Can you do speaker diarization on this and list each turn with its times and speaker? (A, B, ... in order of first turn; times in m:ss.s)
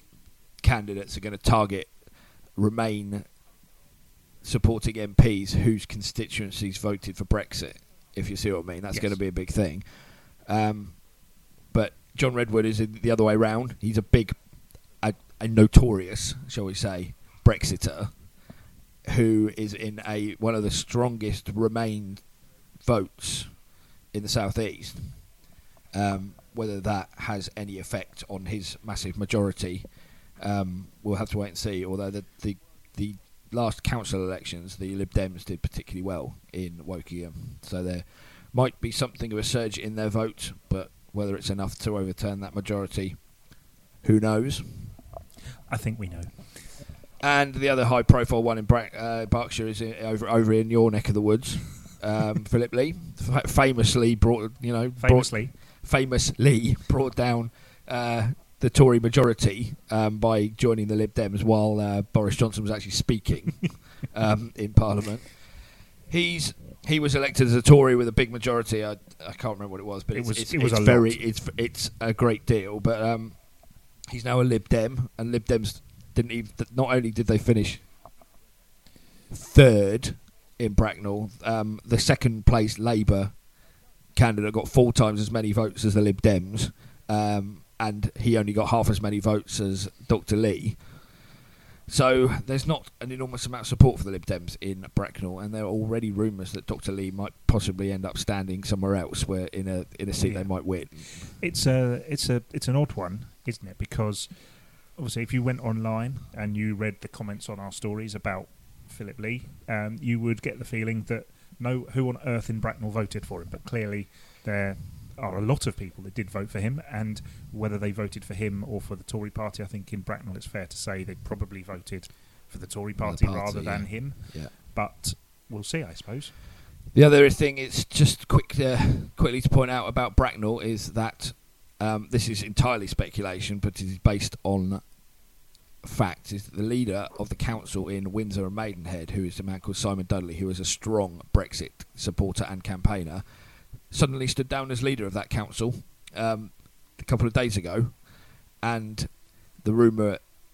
0:00.6-0:01.9 A
0:02.6-0:03.2 A
0:04.4-0:09.9 A
0:08.9-0:09.2 B
0:10.4-0:11.0 A
0:11.7-0:14.4 A
0:15.0-0:18.1 A
0:19.0-0:22.2 A
0:22.8-0:23.5 A
0:24.1-0:25.2 A
0:25.9-0:29.8 A
0:30.4-0:43.2 A
0:44.0-0:44.9 A
0:45.7-0:46.8 B
0:47.2-1:05.5 A
0:55.0-0:55.5 B
1:06.1-1:13.4 A
1:10.1-1:11.2 B
1:14.1-1:17.8 A
1:19.3-1:23.3 A
1:24.1-1:30.8 A
1:31.9-1:41.3 A
1:40.2-1:44.3 B
1:45.0-2:06.3 B
2:03.0-2:04.5 A
2:06.9-2:14.8 A
2:15.8-2:23.2 A
2:23.9-2:28.0 A
2:28.6-2:30.2 A